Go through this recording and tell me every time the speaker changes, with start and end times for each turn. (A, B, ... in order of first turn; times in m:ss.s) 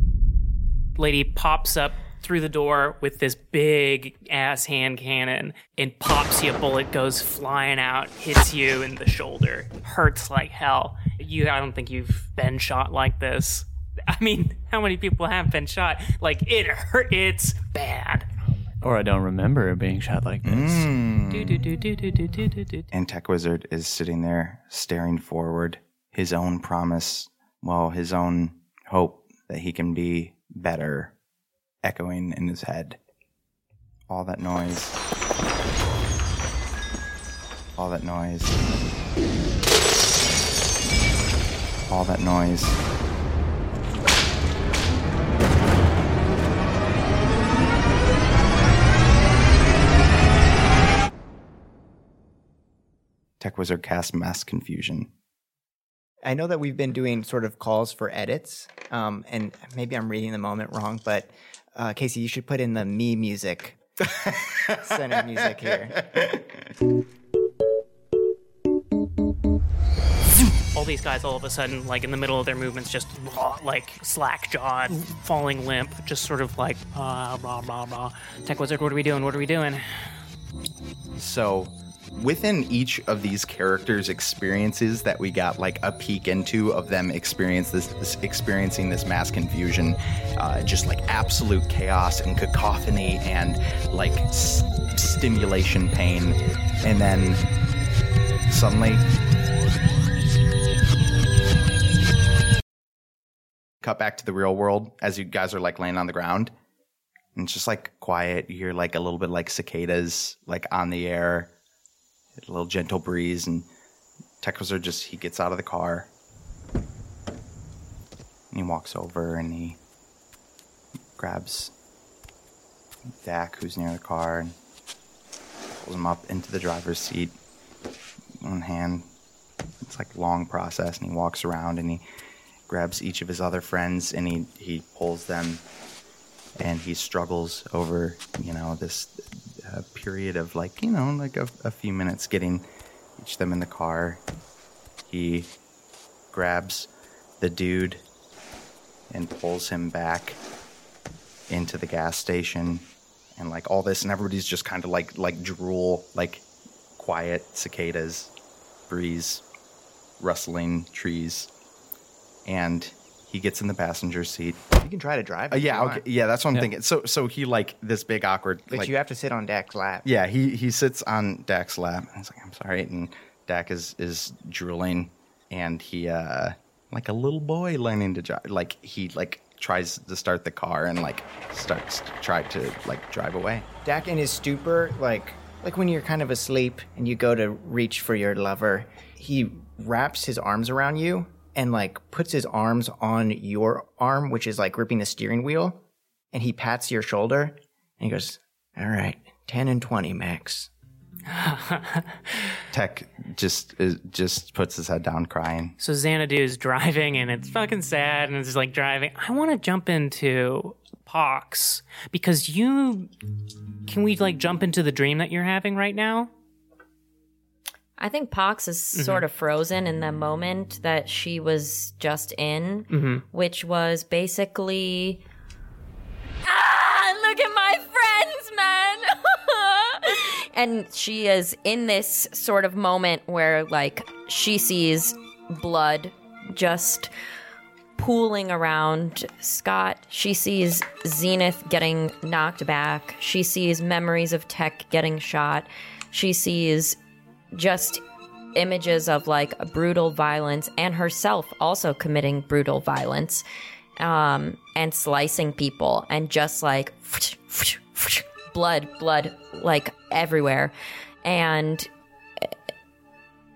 0:01.0-0:18.3 A
0:18.8-0:20.9 B
0:20.4-0:21.7 C
0:21.3-0:22.9 A
0:22.9-0:31.1 C
0:31.8-0:33.0 C
0:34.1-0:35.0 C
0:37.8-0:38.6 C
0:41.9-0:42.8 C
0:53.4-0:55.1 C
0:56.2-1:03.8 D
1:04.3-1:04.9 C
1:04.7-1:06.2 D
1:06.1-1:06.4 C
1:10.7-1:19.8 A
1:21.2-1:37.4 C
1:38.5-1:39.0 C
1:43.8-1:46.5 C
1:47.3-1:51.5 C
1:52.4-1:53.7 C
1:54.4-1:56.1 C
1:58.5-1:59.8 C
2:01.2-2:01.7 C
2:03.2-2:04.5 C
2:05.7-2:07.4 C
2:08.4-2:09.1 C
2:09.8-2:12.0 C
2:12.7-2:15.6 C
2:16.6-2:22.6 C
2:23.2-2:24.2 C
2:25.1-2:25.5 C
2:26.3-2:26.9 C
2:27.4-2:28.0 C
2:29.1-2:30.4 C
2:31.5-2:36.4 C
2:37.0-2:38.3 C
2:38.9-2:39.4 C
2:40.2-2:41.5 C
2:42.4-2:44.6 C
2:44.8-2:46.0 D
2:45.5-2:48.9 C
2:48.7-2:50.1 D
2:50.0-3:03.6 C
3:03.8-3:15.8 D
3:16.3-3:20.7 D
3:21.3-3:22.5 A
3:22.7-3:25.8 C
3:25.8-3:33.1 A
3:33.9-3:36.3 A
3:38.0-3:45.2 E
3:38.9-3:39.2 A
3:42.9-3:43.2 A
3:46.4-3:57.1 E
3:58.0-4:07.0 E
4:07.5-4:08.0 E
4:08.5-4:13.4 E
4:14.0-4:20.7 E
4:21.2-4:21.9 E